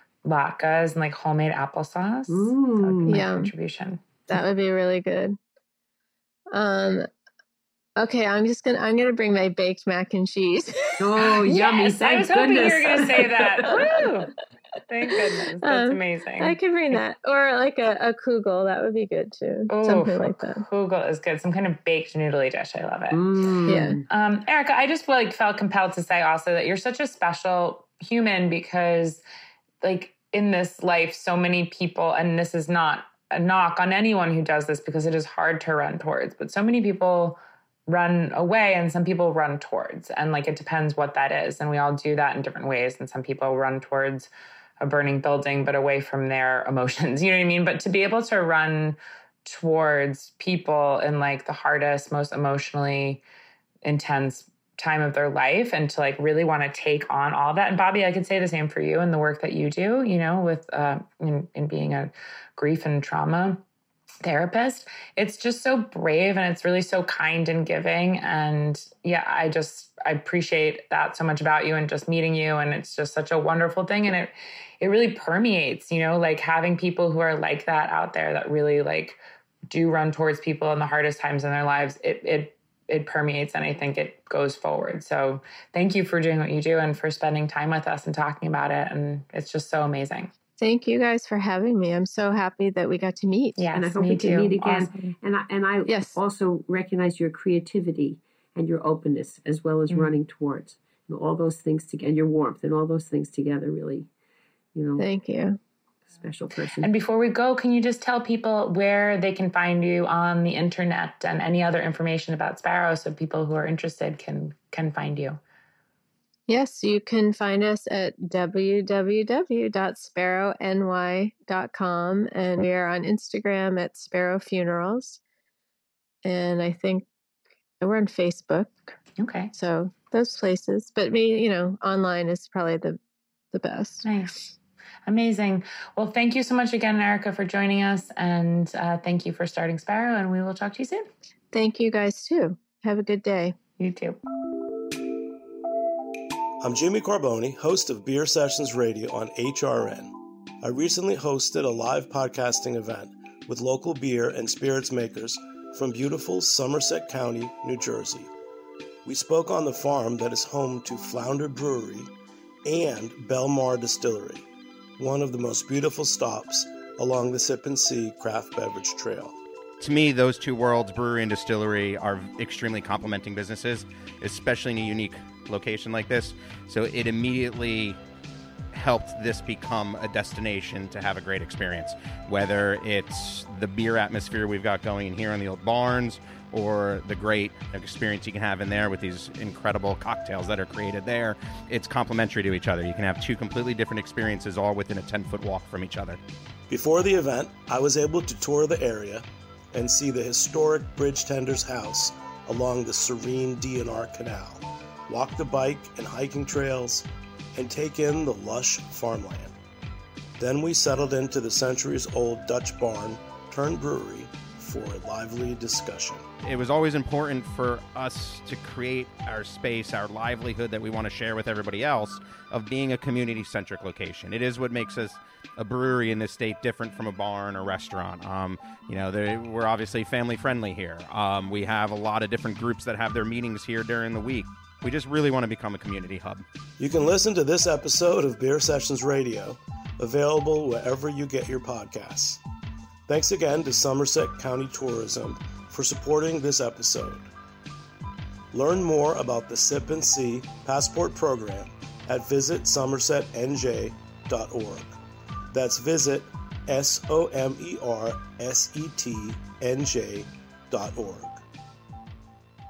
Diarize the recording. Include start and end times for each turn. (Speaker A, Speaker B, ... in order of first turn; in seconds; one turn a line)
Speaker A: 0.2-4.0
Speaker B: 2.3-3.2
Speaker C: 3.1-3.5
Speaker C: 4.3-5.4
Speaker C: 6.5-7.1
Speaker C: 8.0-11.7
Speaker B: 11.0-13.7
Speaker A: 11.5-14.3
Speaker A: 14.9-16.6
Speaker C: 15.6-20.6
Speaker A: 19.7-23.2
Speaker B: 23.1-24.0
Speaker C: 23.7-24.0
Speaker A: 24.1-29.2
Speaker A: 29.8-53.2
Speaker A: 53.8-63.6
Speaker A: 64.2-79.2
Speaker A: 79.7-90.3
Speaker C: 90.6-93.6
Speaker A: 93.6-95.1
Speaker B: 93.7-104.1
Speaker C: 95.9-96.2
Speaker B: 104.7-105.1
Speaker C: 105.0-105.6
Speaker B: 106.1-106.9
Speaker A: 106.8-115.4
Speaker C: 116.5-125.2
Speaker C: 126.2-127.1
Speaker C: 127.8-128.9
Speaker A: 129.2-129.5
Speaker C: 129.5-133.0
Speaker C: 133.5-134.1
Speaker A: 134.0-134.3
Speaker A: 135.1-141.1
Speaker C: 141.5-143.6
Speaker A: 143.8-144.2
Speaker D: 146.6-158.3
Speaker D: 159.0-162.1
Speaker D: 162.6-164.4
Speaker D: 165.0-169.4
Speaker E: 169.8-178.0
Speaker E: 178.7-196.2
Speaker D: 196.7-209.5
Speaker D: 210.4-216.3
Speaker E: 216.4-236.4
Speaker D: 236.8-242.4
Speaker D: 243.1-247.3
Speaker D: 248.5-255.0
Speaker D: 255.5-261.4